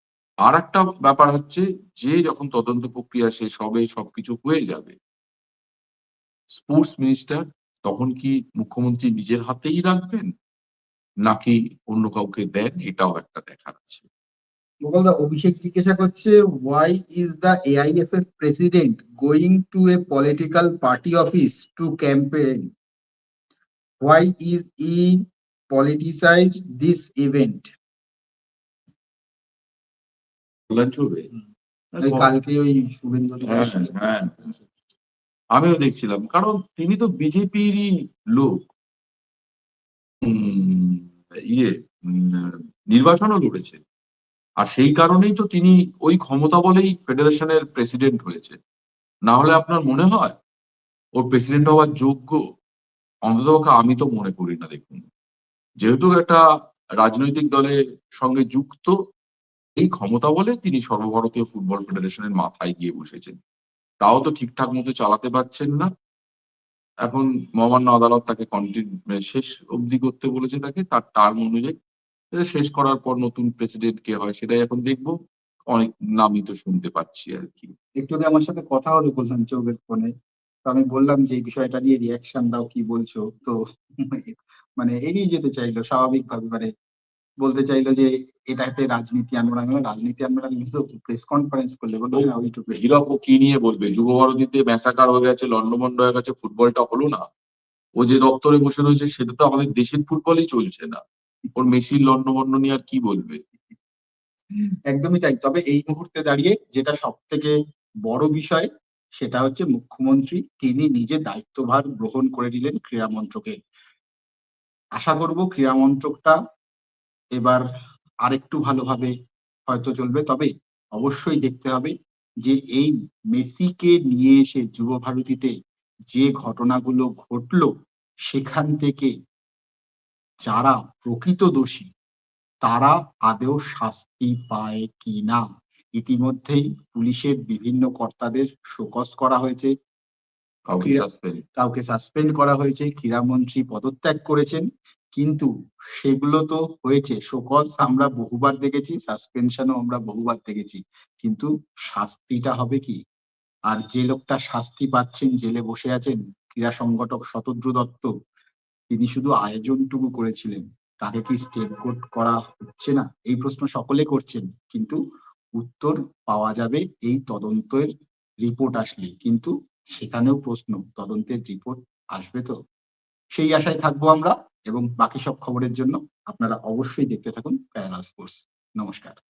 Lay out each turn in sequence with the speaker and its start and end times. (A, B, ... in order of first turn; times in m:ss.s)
0:00.4-0:05.0 A
0:06.5-0:10.3 A
0:11.2-0:14.0 A
0:14.8-0:22.7 B
0:24.0-0:25.2 B
0:25.7-0:27.7 B
0:30.7-0:31.3 A
0:31.9-0:32.3 A
0:32.0-0:34.5 B
0:33.4-0:34.3 A
0:35.6-0:38.6 A
0:40.2-0:43.8 A
0:44.6-0:48.6 A
0:49.3-0:50.4 A
0:51.2-0:52.4 A
0:53.2-0:55.1 A
0:55.8-0:56.4 A
0:57.0-0:58.9 A
0:59.8-1:03.4 A
1:04.0-1:05.9 A
1:07.0-1:11.8 A
1:12.4-1:15.1 A
1:15.7-1:17.7 A
1:18.0-1:20.1 B
1:20.6-1:26.7 B
1:27.4-1:32.8 B
1:32.8-1:37.2 A
1:38.0-1:41.0 A
1:41.5-1:43.4 A
1:44.9-1:47.5 B
1:48.1-1:53.6 B
1:55.0-1:56.4 B
1:57.4-1:57.6 B
1:58.2-1:59.1 B
1:59.7-2:05.5 B
2:06.1-2:07.7 B
2:08.3-2:09.1 B
2:10.4-2:11.9 B
2:12.6-2:15.4 B
2:16.0-2:19.7 B
2:20.7-2:21.4 A
2:20.8-2:21.0 B
2:21.6-2:33.0 B
2:33.7-2:38.1 B
2:38.9-2:45.0 B
2:45.6-2:47.9 B
2:48.4-2:52.5 B
2:53.3-2:59.2 B